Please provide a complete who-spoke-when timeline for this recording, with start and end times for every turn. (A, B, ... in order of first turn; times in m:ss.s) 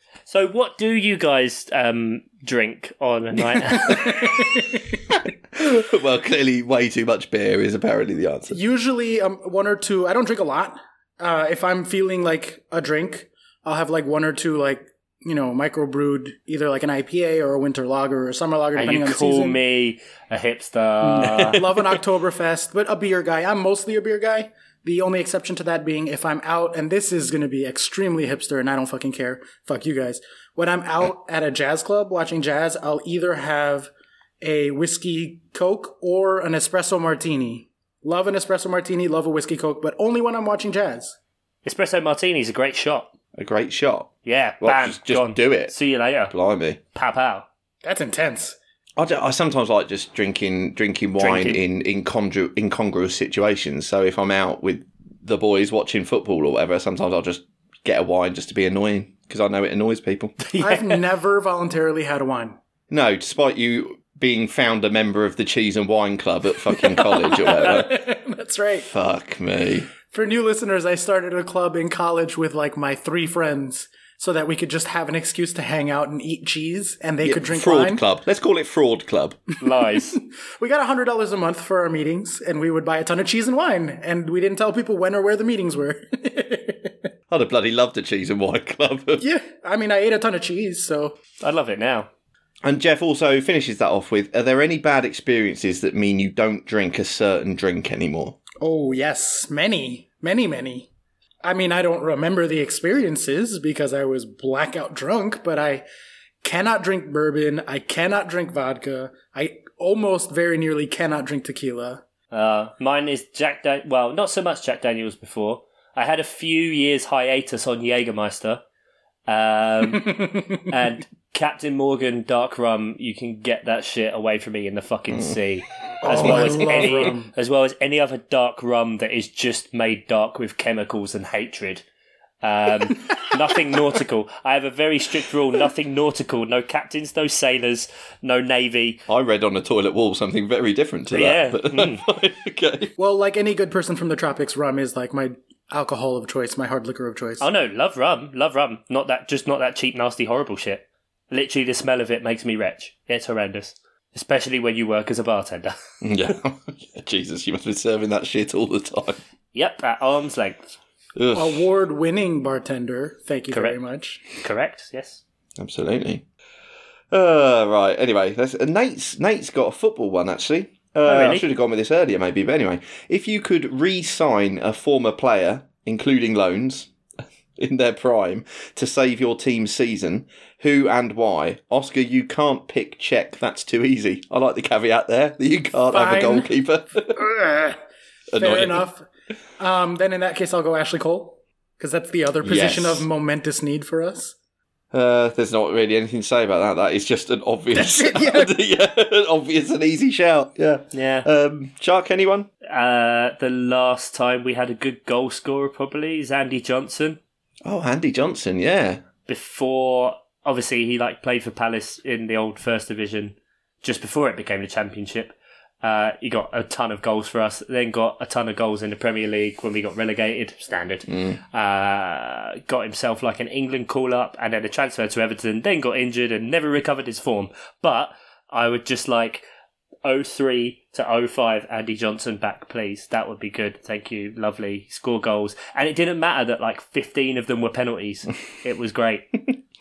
0:00.3-0:04.2 A
0:03.8-0:05.0 B
0:05.1-0:08.6 C
0:08.5-0:19.6 B
0:18.7-0:21.7 A
0:21.0-0:33.9 B
0:34.4-0:41.2 B
0:41.6-0:43.1 A
0:43.4-0:45.7 C
0:44.2-0:46.3 A
0:46.3-0:46.8 C
0:46.9-0:47.4 A
0:47.8-0:48.6 B
0:49.0-1:00.4 C
0:51.2-0:51.6 A
1:00.4-1:01.0 A
1:00.6-1:02.6 B
1:02.9-1:08.0 C
1:06.7-1:08.9 B
1:08.9-1:09.9 C
1:10.1-1:18.0 B
1:17.2-1:19.4 C
1:19.6-1:20.2 A
1:20.6-1:27.1 B
1:27.3-1:29.2 C
1:29.2-1:31.2 B
1:31.4-1:32.1 A
1:32.6-1:38.4 C
1:38.6-1:40.9 B
1:41.4-1:45.8 B
1:46.4-1:52.0 B
1:52.3-1:58.6 A
1:59.3-2:11.8 A
1:59.9-2:00.7 B
2:06.0-2:07.3 B
2:06.1-2:06.9 C
2:12.4-2:19.0 A
2:19.1-2:22.9 C
2:21.1-2:22.0 A
2:23.0-2:27.4 B
2:27.4-2:35.8 A
2:36.0-2:39.2 C
2:39.5-2:40.7 A
2:41.2-2:41.6 C
2:41.3-2:44.2 B
2:43.5-2:43.8 A
2:44.4-2:45.2 A
2:45.6-2:46.2 C
2:47.1-2:56.9 C
2:51.0-2:51.5 A
2:57.6-3:07.2 C
3:05.9-3:06.5 B
3:07.2-3:07.8 B
3:08.3-3:08.8 C
3:08.4-3:09.0 B
3:09.6-3:14.3 B
3:12.4-3:13.1 C
3:14.9-3:22.5 C
3:17.7-3:18.5 B
3:20.9-3:21.3 A
3:22.7-3:27.2 A
3:27.6-3:29.0 C
3:29.3-3:49.4 A
3:41.1-3:41.4 C
3:50.0-3:59.4 A